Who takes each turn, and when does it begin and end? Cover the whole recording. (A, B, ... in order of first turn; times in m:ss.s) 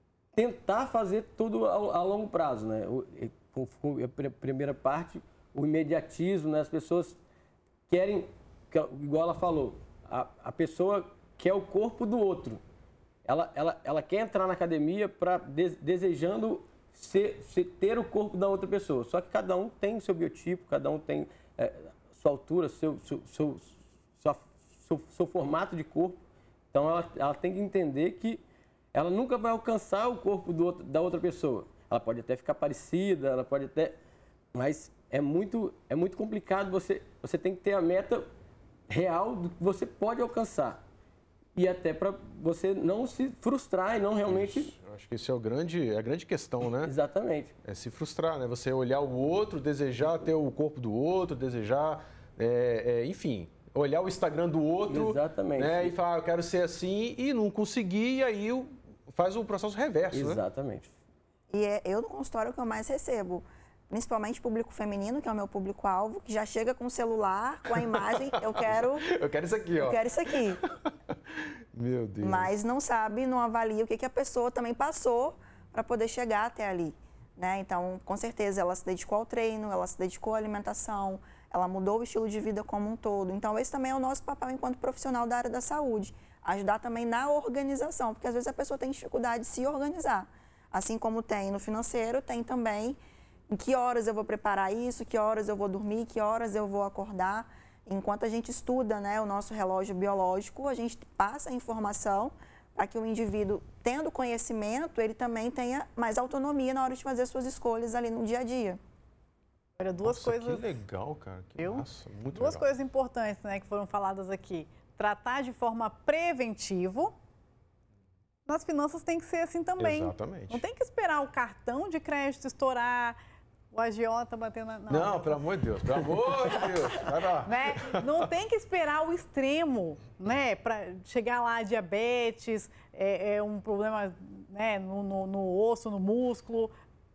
0:00.3-0:07.2 A
0:07.9-0:12.6 A
0:13.2-0:26.2 A
0:26.7-0:28.4 A
0:28.9-0:34.0 A
0:34.5-0:38.3 A
0:38.9-0:40.8 A
0:41.6-0:44.7 A
0:44.3-0:46.9 B
0:46.8-0:47.5 A
0:47.6-1:00.4 B
0:54.9-0:55.9 A
1:00.1-1:00.9 A
1:01.5-1:09.1 C
1:07.8-1:10.7 B
1:09.8-1:10.6 C
1:11.7-1:12.5 B
1:12.2-1:33.0 C
1:33.5-1:48.8 C
1:49.8-1:50.8 D
1:50.0-1:52.7 B
1:51.6-1:57.1 D
1:58.5-2:03.2 D
1:59.8-2:00.6 B
2:03.7-2:05.4 D
2:04.9-2:08.2 B
2:07.4-2:16.7 D